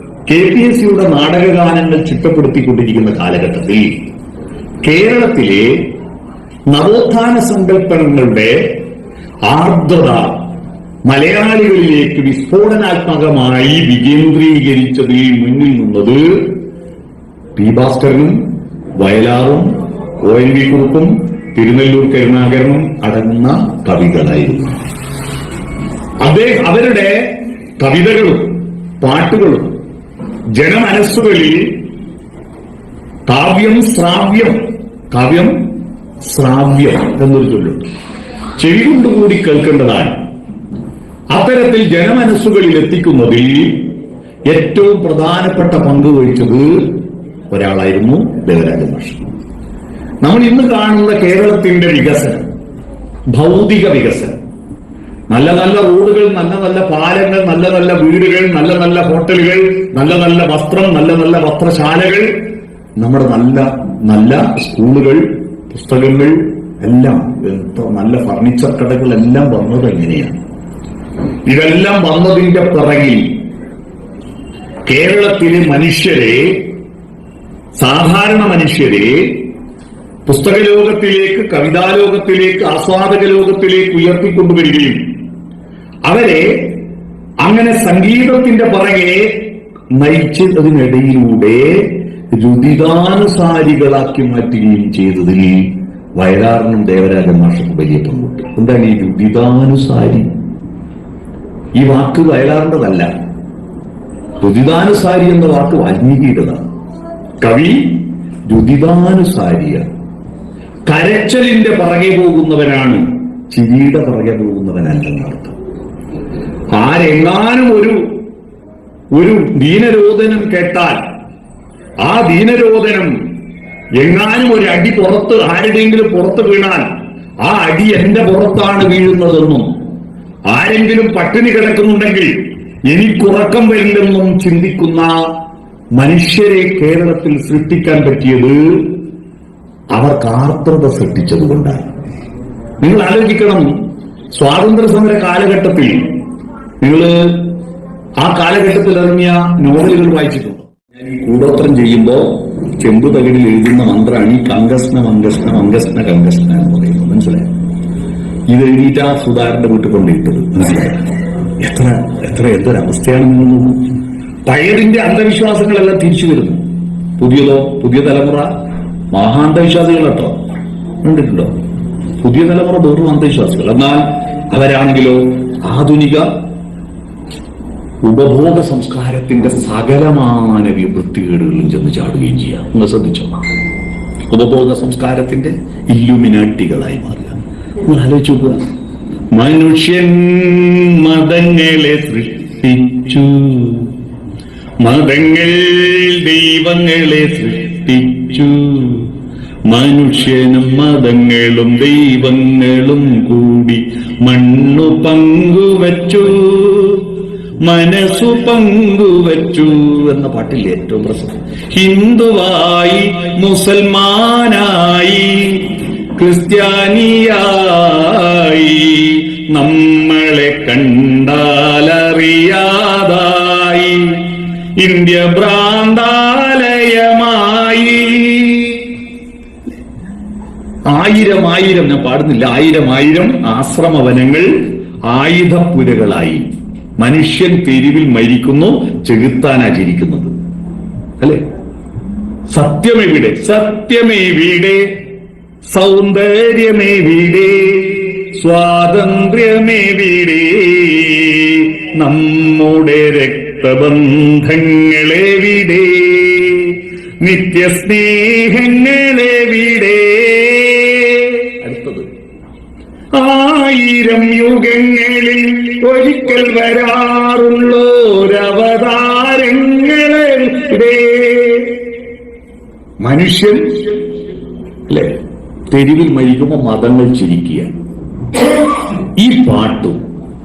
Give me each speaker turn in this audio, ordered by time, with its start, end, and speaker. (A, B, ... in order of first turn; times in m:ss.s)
0:00.3-0:03.9 A
0:04.8-0:05.8 A
0:06.7-0:08.8 A
0:09.5-0:10.4 A
0:11.1-0:16.5 A
0:17.6-0:18.4 A
0:19.0-0:24.8 A
0:26.2-0:29.7 A
0:30.6-0:31.7 A
0:33.3-0:35.6 A
0:36.2-0:37.8 A
0:38.6-0:40.2 A
0:41.3-0:43.9 A
0:44.5-0:47.0 A
0:47.5-0:49.3 A
0:50.2-0:52.5 A
0:53.3-0:54.4 A
0:55.3-1:02.3 A
1:03.0-1:10.4 A
1:11.4-1:13.3 A
1:14.9-1:16.6 A
1:17.8-1:19.4 A
1:20.2-1:25.0 A
1:26.1-1:26.7 A
1:27.4-1:29.4 A
1:29.9-1:40.3 A
1:41.8-1:43.1 A
1:44.4-1:46.6 A
1:47.4-1:49.9 A
1:50.9-1:55.5 A
1:56.7-1:58.0 A
1:59.1-2:01.0 A
2:02.0-2:03.1 A
2:04.0-2:06.8 A
2:07.4-2:09.7 A
2:10.5-2:15.3 A
2:16.0-2:18.9 A
2:19.9-2:21.9 A
2:22.8-2:23.7 A
2:24.3-2:26.1 A
2:26.8-2:27.5 A
2:28.2-2:37.5 A
2:38.5-2:43.8 A
2:44.5-2:46.6 A
2:47.2-2:48.5 A
2:49.1-2:50.4 A
2:51.0-2:51.5 A
2:52.2-2:56.3 A
2:58.0-3:03.4 A
3:04.3-3:08.7 A
3:09.3-3:13.9 A
3:14.8-3:19.1 A
3:19.7-3:27.1 A
3:27.6-3:48.9 A
3:50.9-3:56.4 A
3:57.0-4:00.3 A
4:02.5-4:04.9 A
4:05.7-4:22.1 A
4:23.1-4:31.8 A
4:33.0-4:33.9 A
4:34.9-4:35.2 A
4:35.7-4:37.7 A
4:39.2-4:40.0 A